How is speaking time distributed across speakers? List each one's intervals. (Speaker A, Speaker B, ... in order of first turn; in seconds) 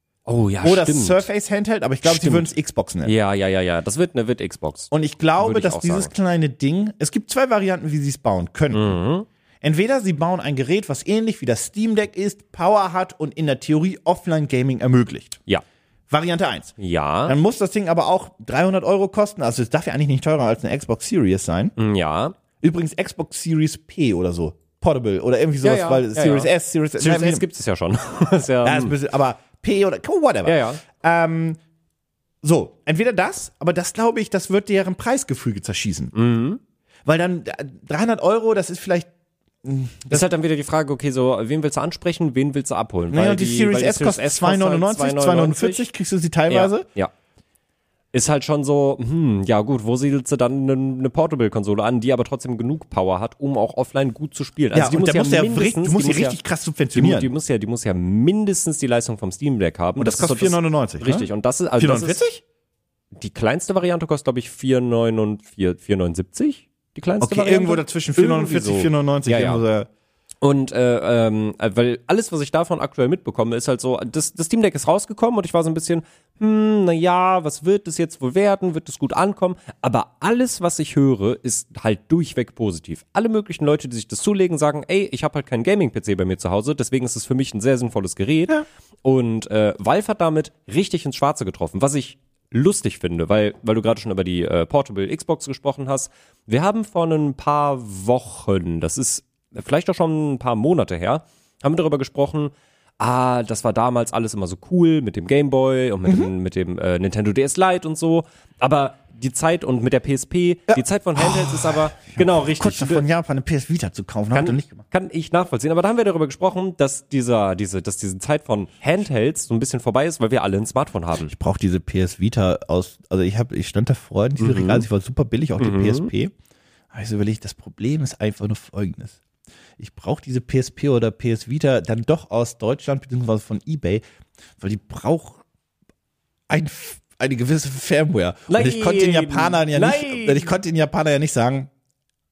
Speaker A: 0.2-1.3, 2.0-2.5, 3.0-6.1, 8.7-9.2, 16.8-17.4, 21.8-22.4, 25.6-29.0, 30.4-30.8, 36.1-36.6, 40.1-45.9, 46.5-47.1, 48.1-56.4, 56.9-62.2, 63.1-69.6, 70.4-113.0, 114.3-121.3, 124.4-124.8, 125.6-126.1, 138.5-140.5
Speaker B: 0.6-3.1, 4.9-8.9, 9.6-15.4, 16.1-21.7, 22.6-27.4, 28.6-31.6, 32.4-36.1, 37.0-39.1, 39.6-40.3, 43.1-46.8, 54.7-57.3, 60.0-62.4, 67.2-69.9, 106.0-106.3, 110.7-114.8, 121.2-126.3, 126.9-129.2, 129.8-134.0, 134.6-135.4, 136.5-141.7